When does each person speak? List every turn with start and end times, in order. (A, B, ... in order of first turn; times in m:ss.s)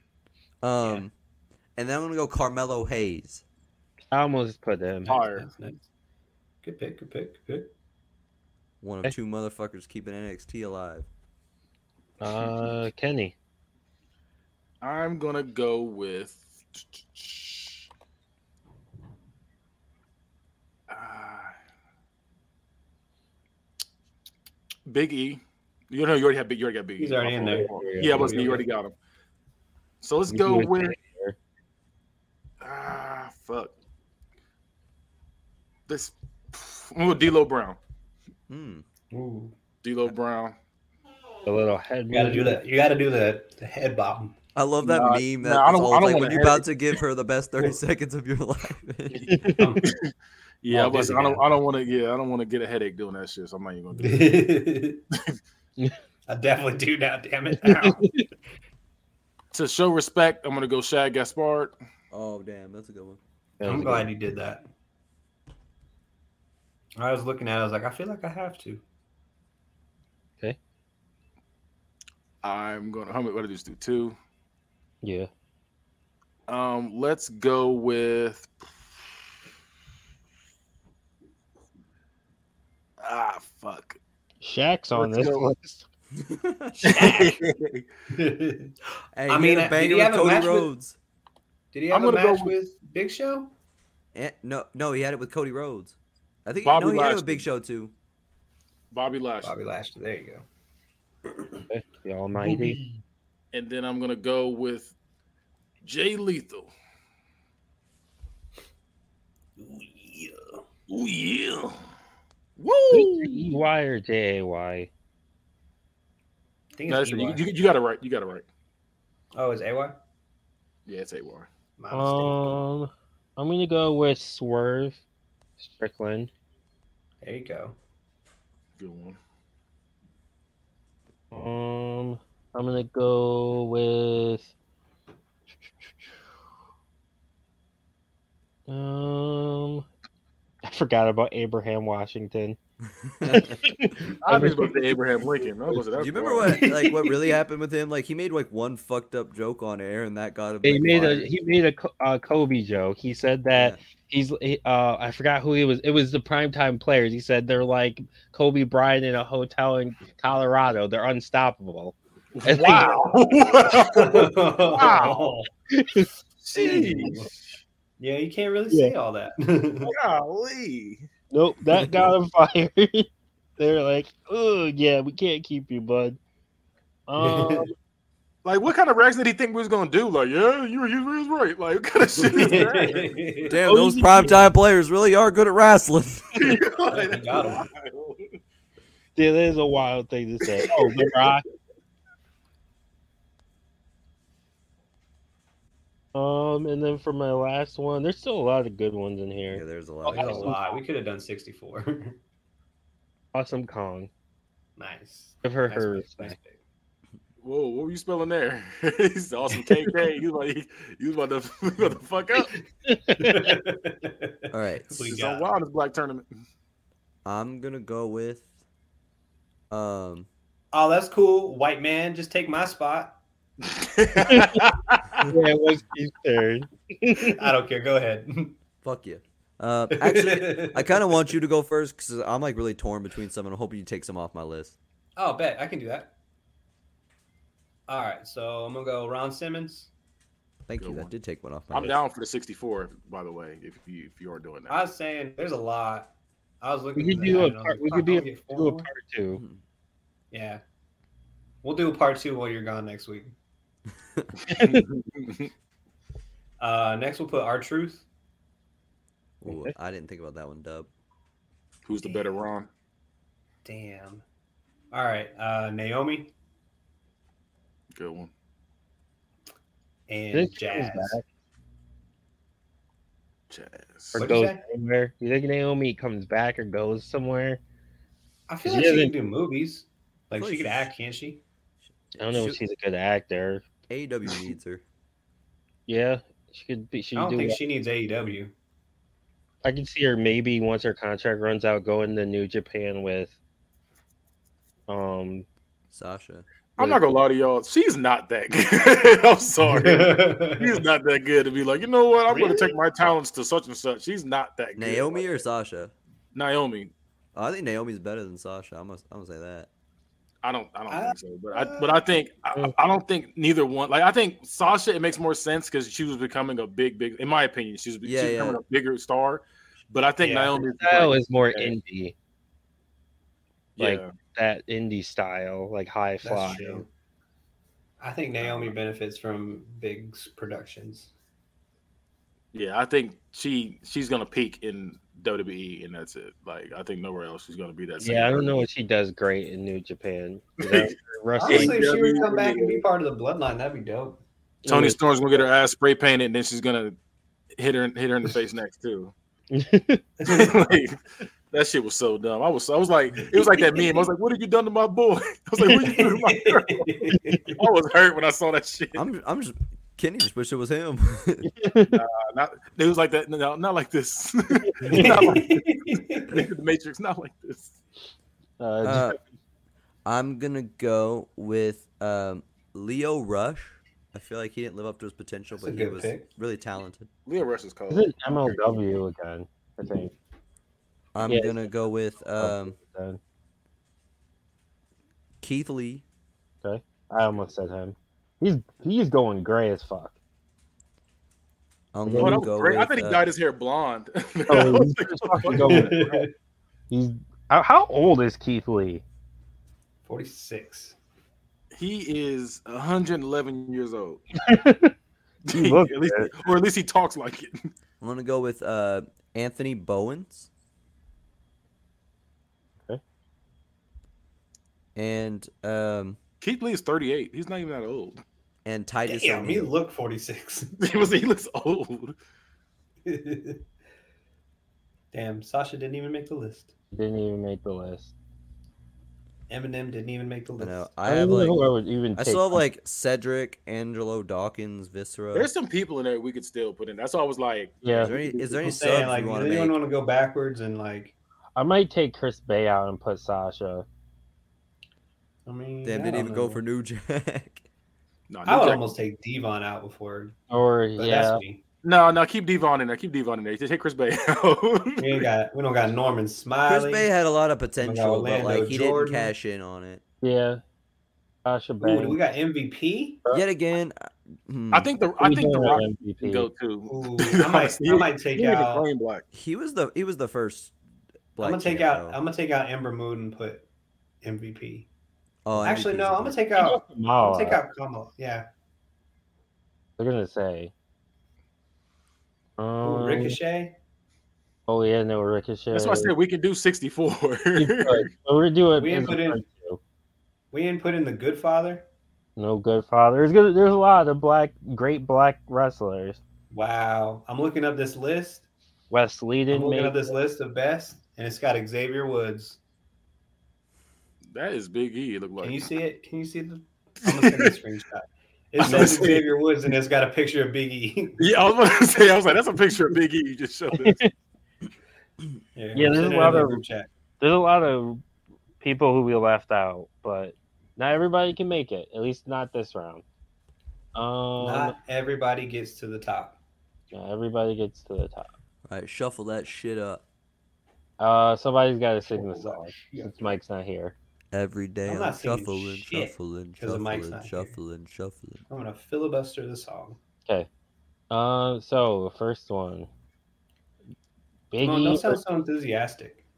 0:00.6-0:01.1 A
0:01.8-0:03.4 A
0:04.1-0:05.1 B
0:05.0-0:05.9 C
0:05.1-0:05.5 D
0:06.6-0:07.7 C
0:08.8-0:11.1 A
0:12.2-0:13.3 B
0:14.8-0:17.8 D
0:20.9-0:21.5 D
0:24.8-0:28.9 D
0:27.0-0:28.6 C
0:27.5-0:28.6 B
0:30.0-0:31.0 D
0:30.3-0:31.4 B
0:32.6-0:33.7 D
0:35.9-0:37.8 D
0:38.5-0:38.8 A
0:39.1-0:39.5 C
0:39.8-0:40.5 D
0:41.4-0:42.6 B
0:42.1-0:44.4 C
0:44.5-0:49.2 A
0:44.8-0:46.7 D
0:49.1-0:50.1 D
0:49.3-0:49.8 B
0:49.6-0:49.9 C
0:50.6-0:54.4 D
0:50.7-0:51.4 C
0:53.9-0:55.0 C
0:56.3-0:58.0 C
0:57.6-0:58.2 B
0:59.5-1:01.7 D
1:02.1-1:03.2 A
1:03.6-1:04.1 B
1:03.6-1:04.6 C
1:07.0-1:08.8 C
1:12.4-1:14.2 D
1:15.0-1:15.3 B
1:16.5-1:18.6 D
1:23.0-1:24.0 D
1:24.4-1:25.8 B
1:24.9-1:25.5 D
1:26.2-1:26.8 A
1:26.8-1:27.4 C
1:26.8-1:27.8 D
1:28.1-1:28.7 C
1:29.1-1:31.0 A
1:29.3-1:30.7 C
1:31.7-1:33.5 C
1:31.9-1:32.5 D
1:34.1-1:37.9 A
1:36.6-1:37.4 D
1:38.9-1:39.5 D
1:39.4-1:40.4 C
1:41.7-1:42.8 B
1:42.4-1:43.0 C
1:43.5-1:44.9 D
1:45.8-1:46.7 D
1:49.6-1:50.6 C
1:50.9-1:51.8 D
1:52.6-1:53.4 D
1:52.9-1:54.9 B
1:56.8-1:57.4 C
1:56.9-1:58.4 D
1:59.3-2:00.0 C
2:00.8-2:01.5 D
2:01.8-2:02.6 C
2:01.9-2:05.0 B
2:05.6-2:06.3 B
2:07.2-2:07.8 C
2:08.8-2:09.2 D
2:11.3-2:14.5 B
2:18.7-2:19.8 B
2:20.6-2:22.6 B
2:23.0-2:23.6 A
2:23.2-2:24.7 B
2:24.2-2:26.6 D
2:26.0-2:31.3 A
2:26.4-2:27.4 C
2:30.6-2:43.1 B
2:42.3-2:45.3 D
2:43.7-2:45.5 C
2:45.7-2:46.1 B
2:46.4-2:47.5 D
2:46.5-2:47.3 C
2:48.0-2:49.9 C
2:49.8-2:51.1 D
2:51.3-2:56.2 B
2:57.1-2:57.7 B
2:57.2-2:57.7 C
2:58.4-3:03.2 D
3:02.3-3:03.6 C
3:03.5-3:06.6 A
3:03.6-3:04.4 B
3:06.4-3:08.4 D
3:06.9-3:07.6 C
3:09.2-3:11.4 B
3:10.7-3:11.1 D
3:16.1-3:20.8 B
3:19.5-3:20.5 A
3:20.1-3:22.2 C
3:23.3-3:24.1 B
3:24.8-3:26.6 C
3:25.4-3:26.4 B
3:27.4-3:32.5 D
3:32.9-3:33.5 B
3:33.2-3:35.6 C
3:34.5-3:35.1 A
3:35.0-3:36.3 D
3:37.2-3:38.5 A
3:39.7-3:40.3 A
3:40.7-3:43.2 C
3:43.6-3:45.2 D
3:44.2-3:44.7 B
3:45.3-3:47.4 B
3:47.2-3:48.6 C
3:48.8-3:54.8 A
3:49.9-3:51.0 C
3:55.2-3:56.1 C
3:57.9-3:59.9 C
4:00.7-4:02.0 A
4:00.8-4:01.1 D
4:01.7-4:04.8 D
4:04.7-4:08.9 C
4:07.0-4:09.4 B
4:09.3-4:09.6 A
4:10.3-4:10.6 C
4:11.6-4:13.3 C
4:14.5-4:14.8 B
4:14.5-4:15.5 D
4:16.6-4:18.0 C
4:19.4-4:20.9 A
4:19.4-4:19.7 B
4:21.8-4:22.7 D
4:22.0-4:22.4 C
4:23.6-4:24.2 C
4:24.9-4:26.3 C
4:27.9-4:28.3 D
4:30.1-4:31.2 C
4:30.3-4:31.2 B
4:33.5-4:34.3 D
4:34.1-4:37.6 B
4:34.1-4:34.6 C
4:38.5-4:41.4 C
4:38.6-4:39.1 B
4:40.4-4:40.9 A
4:42.2-4:43.6 B
4:42.3-4:42.6 A
4:43.9-4:44.8 A
4:45.9-4:47.6 B
4:47.2-4:48.5 C
4:49.6-4:53.4 B
4:54.9-4:55.4 B
4:55.9-4:56.4 A
4:56.8-5:05.4 D
4:56.8-4:57.0 B
4:59.6-5:00.8 C
5:02.3-5:02.7 C
5:04.8-5:05.9 A
5:06.3-5:06.9 D
5:07.3-5:09.7 A
5:10.4-5:21.7 D
5:10.9-5:12.0 C
5:18.0-5:18.6 A
5:20.2-5:22.1 B
5:23.8-5:24.1 D
5:23.8-5:26.8 B
5:26.2-5:26.9 C
5:28.0-5:31.1 C
5:28.4-5:28.7 D
5:32.5-5:38.6 D
5:38.0-5:41.8 B
5:40.6-5:42.8 D
5:41.4-5:44.2 C
5:44.6-5:45.0 B
5:44.7-5:46.9 D
5:47.6-5:49.1 D
5:49.5-5:50.0 B
5:50.2-5:51.0 D
5:51.5-5:59.0 D
5:53.3-5:53.8 C
5:55.6-5:57.6 C
5:58.9-6:01.5 A
6:01.4-6:02.0 B
6:01.9-6:07.8 D
6:04.8-6:05.3 B
6:04.9-6:06.4 C
6:08.6-6:09.2 B
6:08.8-6:09.2 A
6:10.0-6:17.1 A
6:15.5-6:16.3 C
6:17.2-6:18.8 D
6:17.9-6:20.1 B
6:21.1-6:22.8 A
6:21.2-6:21.7 B
6:22.4-6:23.2 B
6:25.4-6:26.0 A
6:26.6-6:30.1 B
6:31.9-6:33.2 A
6:32.0-6:32.4 B
6:32.2-6:36.1 D
6:34.5-6:36.2 B
6:35.6-6:36.3 C
6:36.9-6:39.0 B
6:40.0-6:41.0 C
6:41.7-6:44.2 D
6:44.4-6:44.9 B
6:45.4-6:47.6 D
6:45.5-6:46.3 B
6:48.0-6:50.5 A
6:54.9-6:56.2 A
6:56.4-6:58.2 D
6:58.6-6:59.7 A
6:59.0-7:00.7 C
7:00.8-7:02.1 D
7:03.0-7:03.6 C
7:05.1-7:06.7 C
7:06.9-7:08.1 B
7:09.5-7:10.9 C
7:10.6-7:15.5 A
7:11.0-7:12.6 B
7:15.3-7:18.2 D
7:17.8-7:18.1 B
7:17.9-7:19.8 A
7:18.4-7:21.1 C
7:21.6-7:23.8 B
7:25.4-7:26.6 C
7:25.8-7:27.6 A
7:28.3-7:28.8 D
7:28.4-7:30.4 C
7:30.5-7:31.4 B
7:31.0-7:31.6 C
7:31.8-7:35.3 D
7:35.0-7:37.1 C
7:36.7-7:40.0 A
7:37.8-7:39.3 C
7:40.2-7:40.6 B
7:41.4-7:42.2 B
7:41.8-7:43.2 C
7:43.3-7:44.9 A
7:44.7-7:49.2 D
7:45.2-7:46.5 B
7:46.9-7:48.8 C
7:49.3-7:50.7 A
7:51.4-7:52.2 A
7:51.4-7:53.6 C
7:54.2-7:54.9 C
7:55.4-7:56.4 A
7:55.6-7:58.5 C
7:56.6-7:57.6 B
8:00.0-8:00.7 B
8:02.6-8:03.4 B
8:02.8-8:03.8 C
8:04.7-8:06.1 B
8:05.7-8:08.1 D
8:07.6-8:09.8 B
8:08.7-8:09.4 C
8:10.5-8:11.8 C
8:12.4-8:16.2 B
8:16.5-8:18.5 C
8:18.9-8:20.2 B
8:19.5-8:22.6 C
8:24.3-8:25.7 D
8:25.4-8:31.2 C
8:27.0-8:27.6 D
8:28.6-8:29.3 D
8:31.2-8:34.0 D
8:33.8-8:34.1 B
8:35.5-8:36.9 C
8:35.7-8:36.6 B
8:37.2-8:38.0 B
8:38.6-8:43.0 B
8:43.9-8:44.8 B
8:44.4-8:46.4 C
8:46.9-8:48.3 B
8:48.7-8:50.0 A
8:51.0-8:53.9 B
8:52.1-8:53.3 C
8:54.3-8:58.4 A
8:54.8-8:57.6 C
8:58.5-9:00.0 C
9:01.1-9:02.9 B
9:04.5-9:05.2 B
9:04.6-9:06.2 C